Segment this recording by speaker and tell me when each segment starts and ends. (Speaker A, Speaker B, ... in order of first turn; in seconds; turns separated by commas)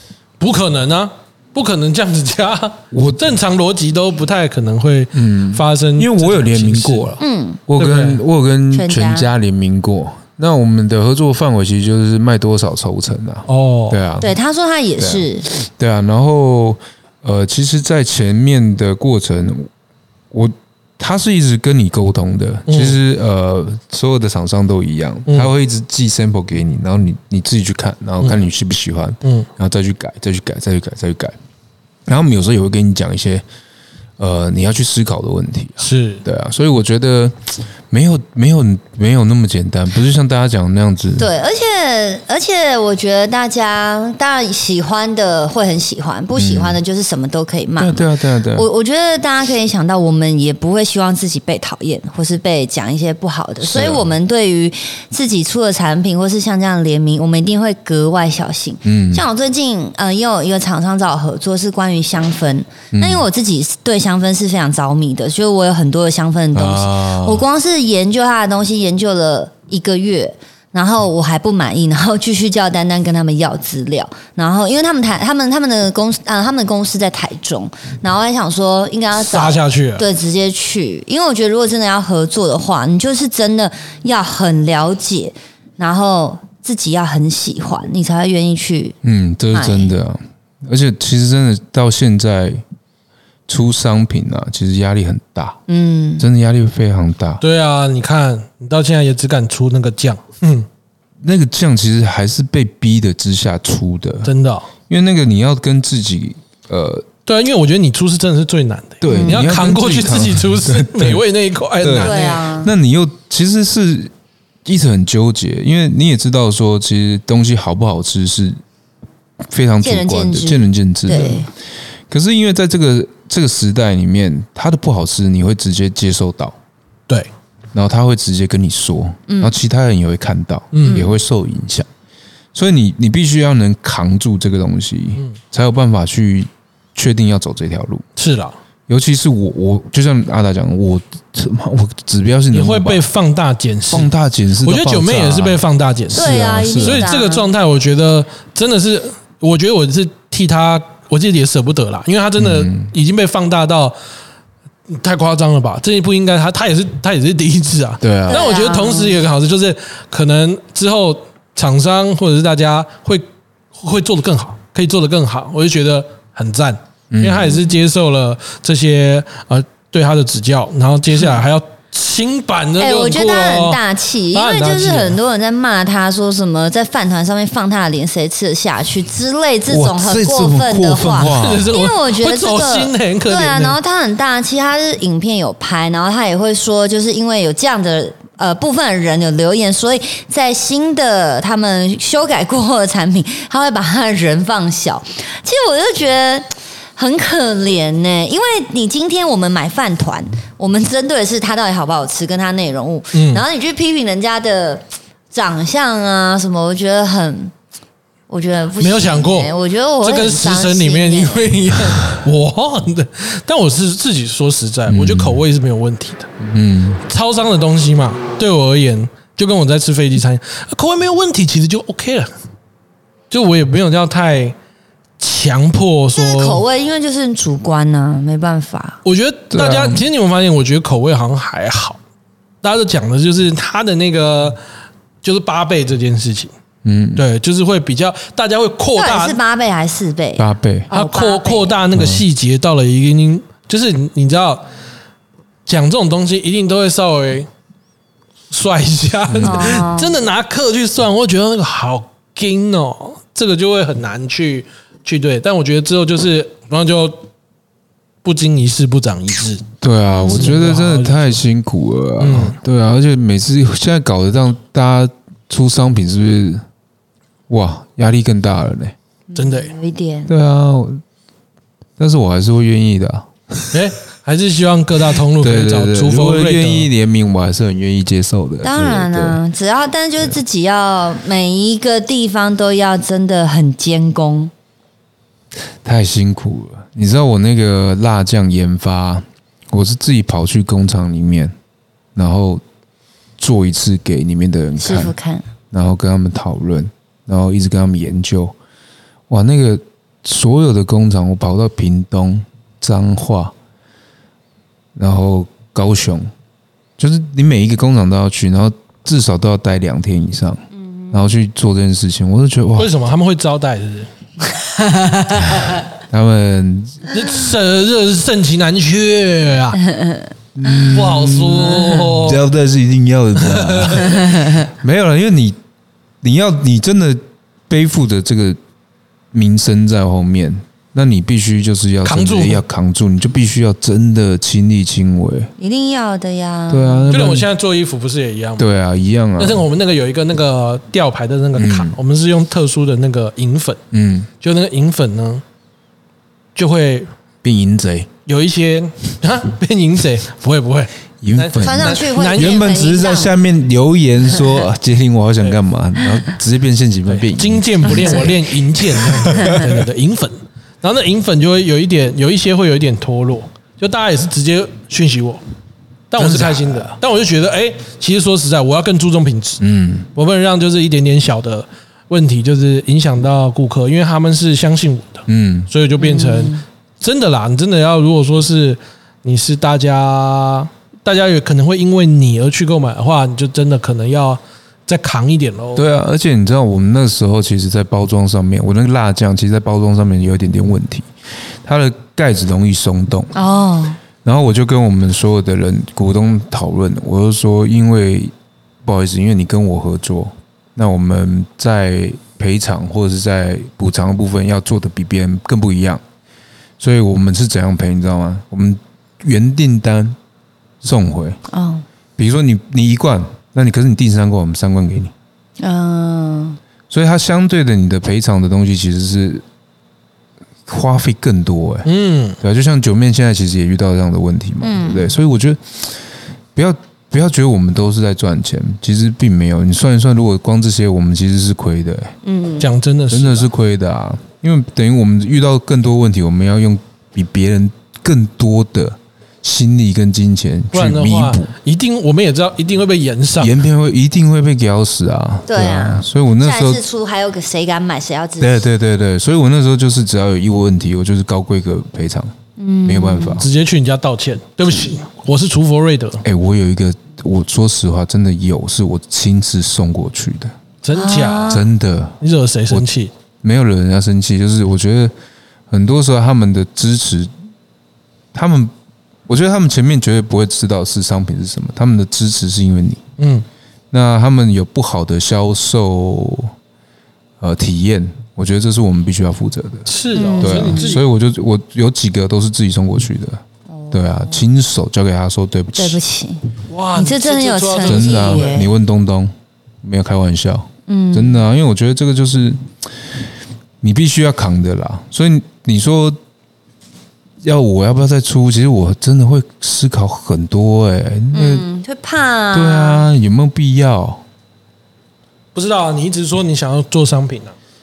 Speaker A: 0.4-7.2, Speaker B: 2.9-3.2, Speaker B: 5.1-14.3, Speaker C: 7.2-7.6, Speaker A: 7.8-8.2, Speaker C: 8.7-9.3, Speaker A: 13.5-14.0, Speaker C: 14.2-15.5, Speaker B: 15.0-19.7, Speaker B: 20.3-31.4, Speaker A: 22.7-23.0, Speaker B: 32.0-33.4, Speaker B: 34.2-41.3, Speaker A: 35.8-36.2, Speaker C: 41.2-89.0, Speaker B: 46.3-46.8, Speaker B: 47.8-48.7, Speaker B: 53.6-54.1, Speaker B: 58.8-59.2, Speaker B: 62.9-63.3, Speaker B: 66.5-67.4, Speaker A: 79.1-80.0, Speaker B: 89.0-92.6, Speaker C: 89.5-89.9, Speaker B: 93.5-95.6, Speaker C: 95.7-96.3, Speaker B: 96.2-97.4, Speaker A: 97.4-100.7, Speaker B: 101.2-104.3, Speaker A: 104.2-104.7, Speaker B: 104.9-107.0, Speaker A: 107.2-112.4, Speaker B: 109.0-111.2, Speaker C: 109.0-109.4, Speaker B: 111.8-114.1, Speaker C: 112.0-112.7, Speaker B: 114.6-118.6, Speaker B: 119.5-121.5, Speaker C: 119.8-121.5, Speaker A: 121.1-121.4, Speaker B: 122.1-126.5, Speaker B: 127.7-131.9, Speaker C: 129.3-129.5, Speaker A: 130.7-131.1, Speaker B: 132.5-138.0, Speaker A: 138.2-138.6, Speaker B: 138.9-143.0, Speaker A: 142.5-144.1, Speaker B: 143.9-147.1, Speaker A: 144.6-153.9, Speaker C: 146.1-147.5, Speaker B: 152.4-152.9, Speaker A: 154.9-173.8, Speaker B: 158.0-158.5, Speaker C: 158.3-159.2, Speaker B: 167.1-167.7, Speaker C: 172.8-207.5, Speaker A: 174.3-175.2, Speaker B: 179.7-181.7, Speaker A: 181.3-183.8, Speaker A: 203.1-203.4, Speaker C: 208.3-212.0, Speaker A: 208.8-216.3, Speaker B: 214.9-215.4, Speaker B: 216.4-217.0, Speaker A: 217.1-222.3, Speaker A: 223.3-224.5, Speaker A: 225.2-226.6, Speaker C: 226.2-229.0, Speaker A: 229.0-232.0, Speaker B: 229.5-230.0, Speaker A: 232.6-234.6, Speaker A: 235.2-236.5, Speaker B: 236.8-237.2, Speaker A: 237.2-239.4, Speaker C: 238.9-241.8, Speaker B: 240.4-240.9, Speaker A: 240.9-244.6, Speaker B: 241.9-242.2, Speaker A: 245.7-247.5, Speaker A: 248.5-257.3, Speaker B: 249.3-249.7, Speaker C: 249.4-250.2, Speaker A: 258.2-259.6, Speaker B: 259.8-266.6, Speaker C: 260.1-260.5, Speaker A: 260.3-261.4, Speaker A: 262.2-262.6, Speaker B: 267.5-268.9, Speaker C: 269.3-270.3, Speaker A: 269.3-269.7, Speaker B: 270.3-271.0, Speaker B: 272.0-273.7, Speaker A: 273.7-276.9, Speaker B: 275.4-279.4, Speaker C: 278.6-284.5, Speaker B: 285.8-291.5, Speaker B: 292.1-292.6, Speaker B: 293.4-295.1, Speaker C: 294.8-295.4, Speaker B: 295.7-298.5, Speaker B: 299.3-303.5, Speaker B: 304.9-306.3, Speaker B: 307.0-312.9, Speaker C: 310.8-311.1, Speaker A: 312.8-314.1, Speaker B: 316.1-317.0, Speaker A: 317.1-319.8, Speaker C: 319.9-320.3, Speaker B: 320.5-325.6, Speaker A: 320.9-322.4, Speaker A: 323.4-324.3, Speaker B: 326.2-328.6, Speaker B: 329.3-335.5, Speaker A: 332.0-332.6, Speaker C: 335.6-337.1, Speaker B: 336.7-337.5, Speaker A: 337.1-338.7, Speaker B: 338.6-339.6, Speaker A: 339.4-343.8, Speaker B: 341.6-342.0, Speaker B: 343.9-344.3, Speaker A: 344.4-345.4, Speaker A: 346.6-347.1, Speaker B: 347.4-348.1, Speaker A: 348.3-352.9, Speaker B: 351.2-358.3, Speaker C: 351.6-353.4, Speaker A: 357.1-365.4, Speaker B: 358.9-359.7, Speaker A: 366.1-385.9, Speaker B: 366.2-366.9, Speaker B: 369.6-370.1, Speaker B: 375.3-375.7, Speaker C: 376.0-376.6, Speaker B: 385.8-391.1, Speaker B: 391.6-393.4, Speaker C: 393.3-394.0, Speaker B: 394.2-398.3, Speaker B: 398.8-406.0, Speaker B: 406.8-410.2, Speaker B: 410.8-411.4, Speaker C: 411.5-411.8, Speaker B: 412.2-415.1, Speaker C: 415.6-416.6, Speaker B: 416.9-419.4, Speaker B: 420.7-421.9, Speaker A: 421.8-422.4, Speaker B: 422.4-426.0, Speaker C: 424.6-425.1, Speaker B: 426.5-432.2, Speaker C: 432.2-432.7, Speaker A: 432.6-433.5, Speaker B: 433.1-441.5, Speaker A: 440.7-443.6, Speaker B: 443.4-446.8, Speaker C: 445.5-448.6, Speaker B: 448.4-453.5, Speaker C: 452.6-453.4, Speaker A: 453.4-456.2, Speaker B: 456.2-460.5, Speaker A: 460.8-461.6, Speaker C: 460.9-461.7, Speaker B: 461.5-462.9, Speaker A: 462.2-463.1, Speaker B: 463.4-465.1, Speaker B: 465.7-467.3, Speaker B: 468.3-468.7, Speaker B: 469.3-473.0, Speaker A: 473.2-473.4, Speaker B: 473.9-476.5, Speaker B: 477.4-486.0, Speaker A: 479.9-481.0, Speaker C: 480.1-480.9, Speaker C: 483.7-484.4, Speaker C: 485.8-488.7, Speaker A: 486.7-488.5, Speaker B: 487.8-492.7, Speaker C: 490.9-491.4, Speaker B: 493.8-496.2, Speaker B: 497.4-501.7, Speaker C: 501.3-503.1, Speaker B: 502.5-504.2, Speaker A: 505.5-507.6